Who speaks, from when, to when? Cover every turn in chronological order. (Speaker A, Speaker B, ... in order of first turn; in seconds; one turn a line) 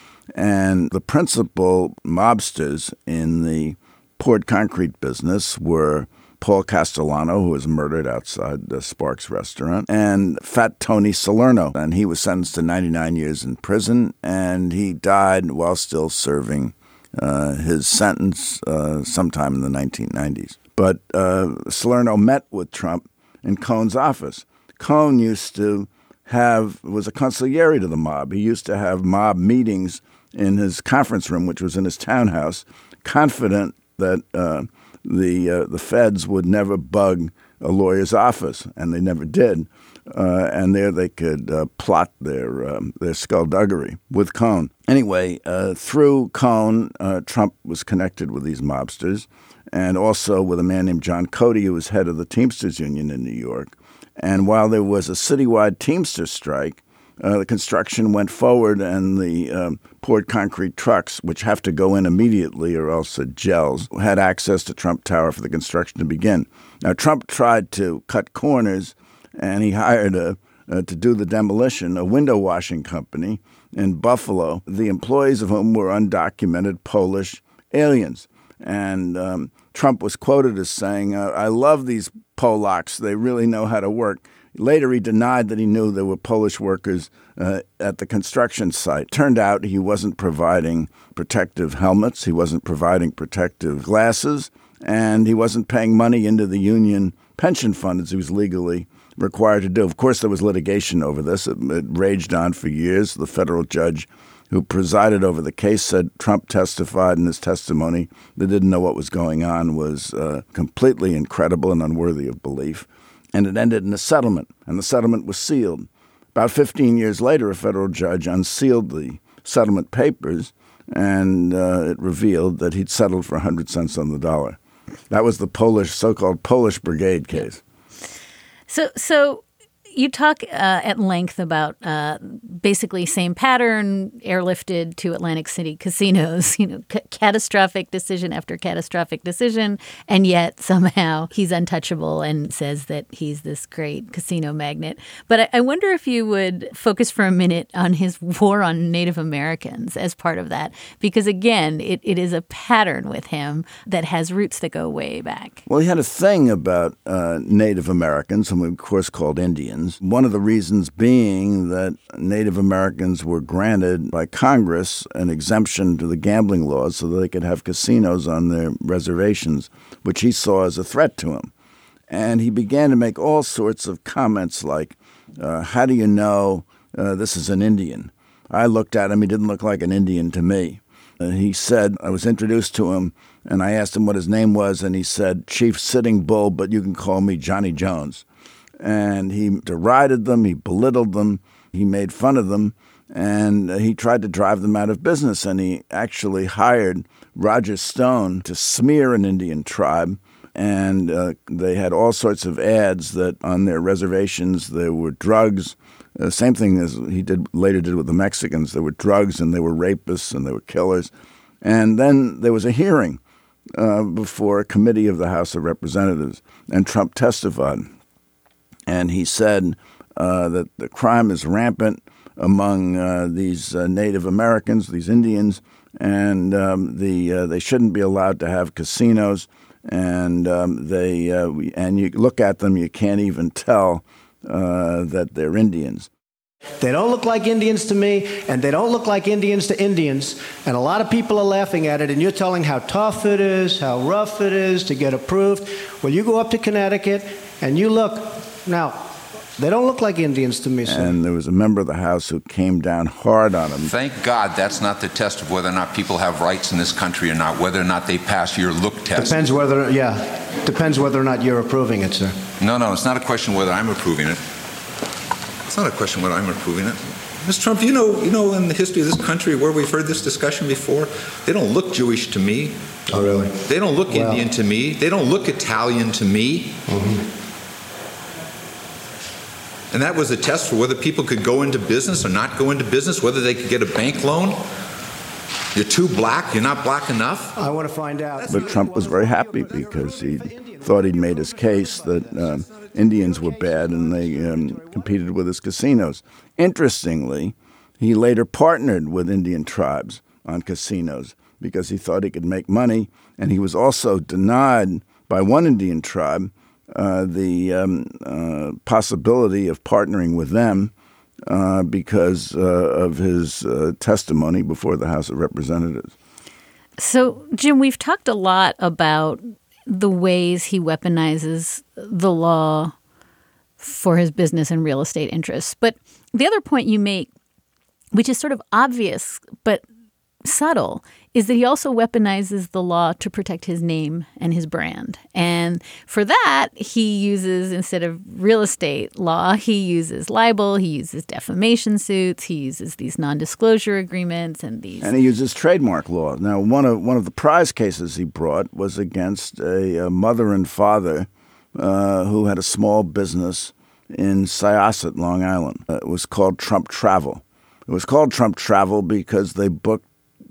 Speaker A: 0.3-124.6
Speaker A: 125.1-127.6
Speaker B: 128.7-155.6
Speaker A: 155.7-171.5
Speaker A: 172.1-188.2
Speaker A: 188.8-213.2
Speaker A: 213.7-217.9
Speaker A: 218.9-236.1
Speaker C: 236.8-249.0
Speaker C: 249.6-251.1
Speaker A: 250.8-253.9
Speaker D: 253.9-259.4
Speaker C: 259.1-262.4
Speaker D: 262.6-264.4
Speaker D: 265.7-272.7
Speaker C: 273.1-273.5
Speaker D: 273.6-276.8
Speaker C: 274.1-274.5
Speaker C: 276.9-277.2
Speaker D: 279.9-284.6
Speaker D: 285.7-287.6
Speaker C: 287.5-289.3
Speaker A: 288.5-310.9
Speaker A: 311.5-316.1
Speaker B: 317.0-322.9
Speaker B: 323.8-327.3
Speaker B: 328.1-329.8
Speaker B: 330.4-345.1
Speaker A: 345.0-360.0